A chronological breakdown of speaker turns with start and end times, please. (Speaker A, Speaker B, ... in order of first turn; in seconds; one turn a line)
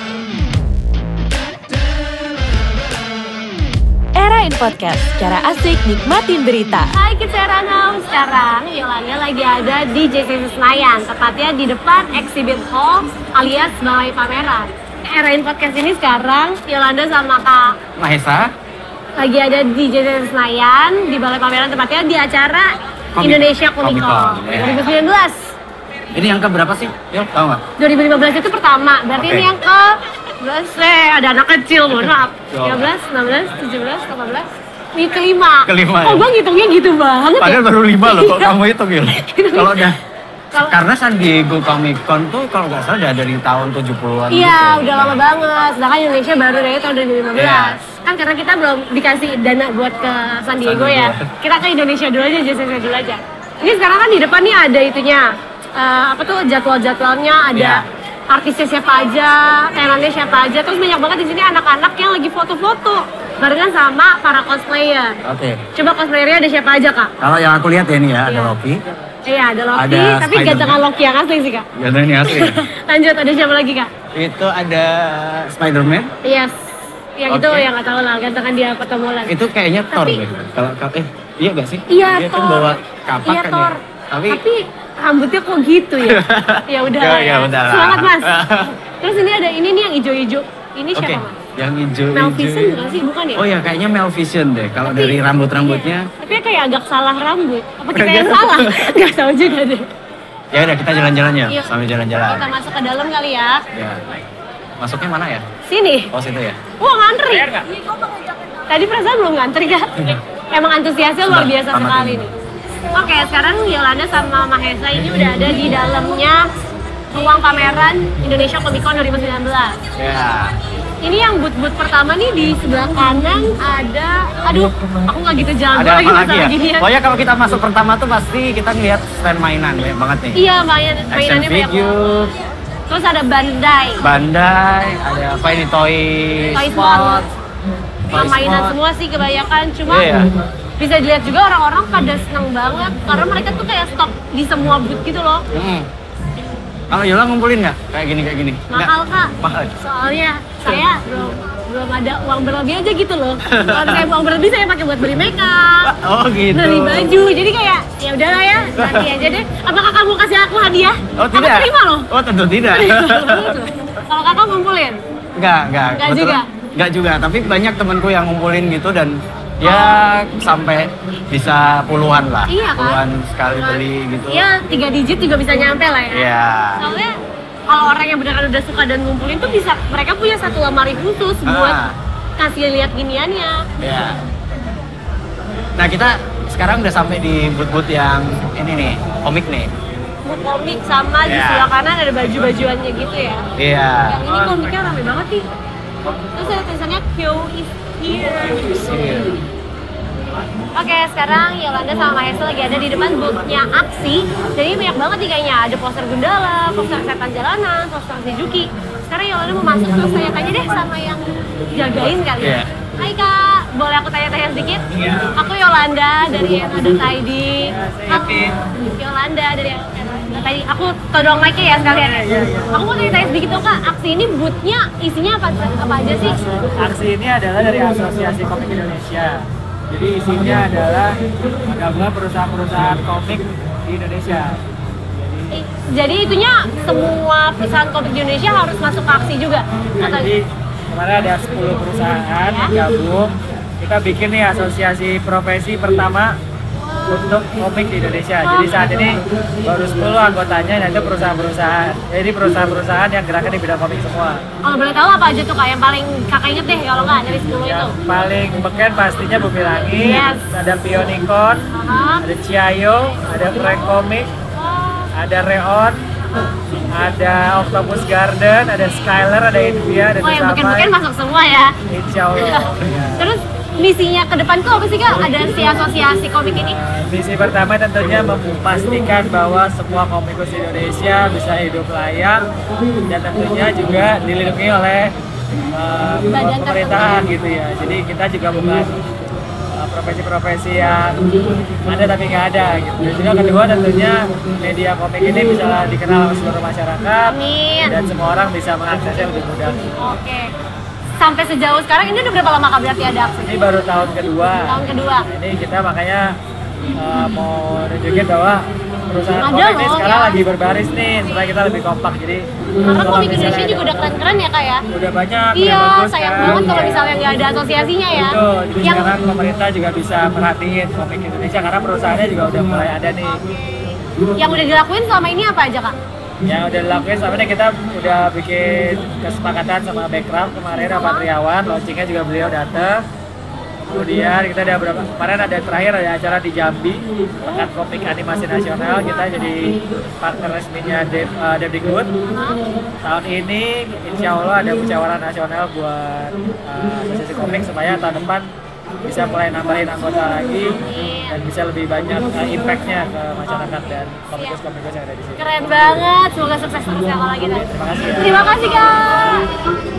Speaker A: 4.1-6.9
Speaker B: 6.9-17.8
Speaker C: 18.0-18.5
Speaker B: 19.2-25.5
Speaker C: 23.1-24.9
Speaker C: 26.1-27.6
Speaker B: 27.8-38.5
Speaker C: 29.1-29.5
Speaker C: 32.5-32.9
Speaker C: 35.6-36.3
Speaker C: 37.4-40.0
Speaker B: 39.1-39.9
Speaker B: 40.5-40.8
Speaker C: 40.7-45.2
Speaker B: 44.3-65.1
Speaker C: 47.3-47.8
Speaker C: 50.6-51.2
Speaker C: 57.5-57.8
Speaker C: 65.2-65.6
Speaker B: 65.7-67.1
Speaker C: 67.2-68.8
Speaker B: 68.2-68.5
Speaker B: 69.2-71.7
Speaker C: 69.7-70.8
Speaker C: 71.8-72.6
Speaker B: 72.2-73.9
Speaker C: 74.1-76.1
Speaker B: 76.2-76.5
Speaker B: 77.2-79.3
Speaker C: 77.3-77.7
Speaker C: 79.3-84.4
Speaker B: 79.9-80.2
Speaker B: 81.9-88.3
Speaker C: 86.0-88.7
Speaker B: 88.8-91.4
Speaker C: 91.0-92.8
Speaker B: 92.1-93.4
Speaker C: 93.3-96.1
Speaker B: 94.8-99.9
Speaker C: 97.9-98.9
Speaker C: 100.5-102.5
Speaker B: 102.2-103.6
Speaker C: 103.7-104.1
Speaker C: 104.8-105.5
Speaker B: 105.6-106.1
Speaker C: 106.1-106.6
Speaker B: 106.8-107.6
Speaker D: 107.3-107.6
Speaker B: 108.7-109.9
Speaker B: 110.5-112.3
Speaker C: 111.2-112.2
Speaker B: 112.9-116.4
Speaker B: 117.1-119.8
Speaker C: 120.0-120.5
Speaker B: 121.0-126.9
Speaker C: 125.7-130.4
Speaker B: 130.3-132.0
Speaker C: 131.1-132.3
Speaker B: 132.9-134.0
Speaker C: 134.0-137.3
Speaker B: 136.5-137.3
Speaker B: 138.1-140.1
Speaker C: 138.1-138.8
Speaker C: 139.9-140.3
Speaker B: 140.8-145.4
Speaker C: 145.5-145.9
Speaker C: 146.9-149.7
Speaker B: 148.7-155.9
Speaker C: 153.4-154.1
Speaker C: 155.8-157.1
Speaker B: 156.5-162.1
Speaker C: 158.8-159.1
Speaker C: 161.2-163.6
Speaker B: 162.7-165.0
Speaker C: 165.3-174.4
Speaker B: 165.9-166.4
Speaker B: 169.6-170.0
Speaker B: 172.5-173.0
Speaker B: 173.5-177.1
Speaker C: 176.1-176.8
Speaker B: 177.7-181.8
Speaker C: 181.4-181.9
Speaker B: 182.4-183.6
Speaker C: 183.8-184.2
Speaker C: 185.8-189.7
Speaker B: 190.2-193.4
Speaker C: 191.2-191.7
Speaker C: 193.6-194.3
Speaker B: 194.0-195.4
Speaker B: 196.3-199.2
Speaker C: 198.8-199.4
Speaker B: 200.7-226.3
Speaker C: 212.4-212.7
Speaker D: 217.7-218.4
Speaker D: 221.7-223.3
Speaker D: 226.2-231.1
Speaker D: 231.7-234.6
Speaker D: 235.2-235.4
Speaker B: 235.5-240.3
Speaker D: 240.0-246.3
Speaker D: 247.1-254.4
Speaker B: 248.4-249.1
Speaker B: 254.6-257.9
Speaker D: 257.6-261.7
Speaker B: 259.9-260.4
Speaker B: 261.7-262.2
Speaker D: 262.2-264.3
Speaker B: 264.6-265.1
Speaker D: 265.1-266.0
Speaker D: 266.9-270.9
Speaker B: 270.2-271.8
Speaker D: 271.9-273.3
Speaker B: 272.4-276.7
Speaker D: 276.6-282.4
Speaker D: 283.1-285.1
Speaker D: 285.7-289.0
Speaker B: 286.3-287.1
Speaker D: 289.8-291.2
Speaker D: 291.9-297.3
Speaker B: 297.3-297.9
Speaker D: 297.8-300.0
Speaker B: 300.0-300.5
Speaker B: 301.2-303.6
Speaker D: 303.4-306.3
Speaker B: 304.7-305.2
Speaker D: 307.0-314.1
Speaker B: 309.4-310.4
Speaker B: 312.8-314.8
Speaker D: 314.9-317.2
Speaker B: 315.5-319.1
Speaker D: 318.1-323.4
Speaker B: 323.4-323.8
Speaker B: 324.4-325.9
Speaker D: 326.5-333.0
Speaker B: 330.9-331.2
Speaker D: 333.9-342.1
Speaker B: 342.3-342.6
Speaker D: 343.0-348.5
Speaker D: 349.0-355.4
Speaker B: 350.8-351.4
Speaker B: 355.4-357.6
Speaker D: 357.6-358.5
Speaker B: 358.2-359.5